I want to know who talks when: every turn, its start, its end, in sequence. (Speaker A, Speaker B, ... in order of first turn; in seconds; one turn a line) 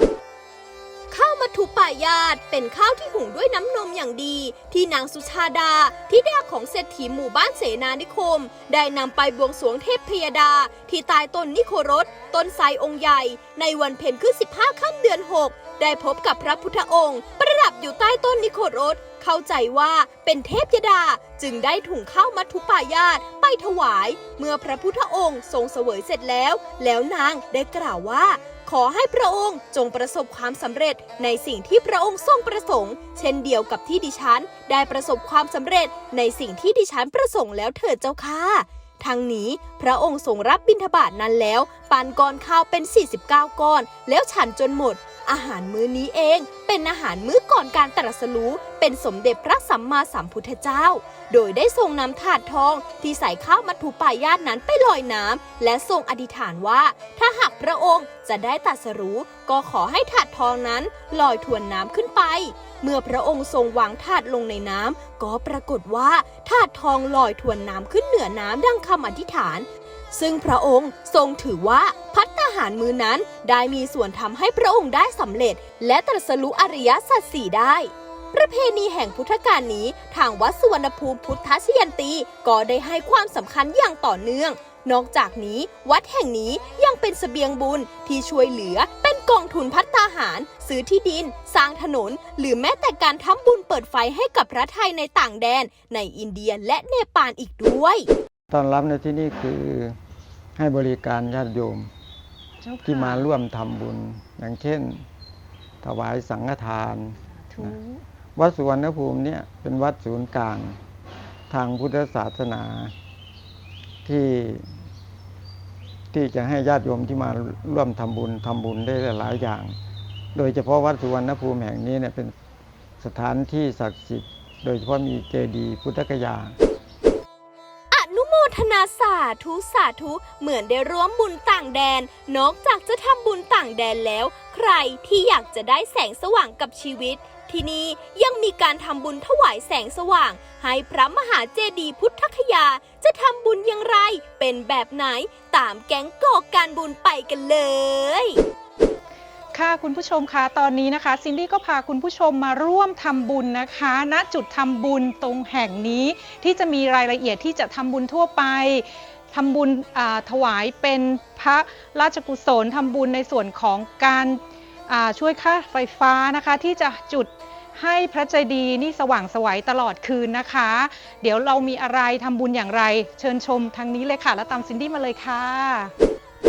Speaker A: 1.1-98.1
Speaker B: 98.5-100.0
Speaker B: 100.6-101.9
Speaker C: 102.6-103.3
Speaker B: 102.8-105.0
Speaker B: 105.8-107.8
Speaker C: 107.5-108.0
Speaker B: 108.3-110.8
Speaker B: 111.5-112.9
Speaker B: 114.0-114.7
Speaker B: 116.1-119.8
Speaker B: 120.3-122.3
Speaker B: 123.0-126.5
Speaker A: 127.9-148.4
Speaker C: 149.5-175.9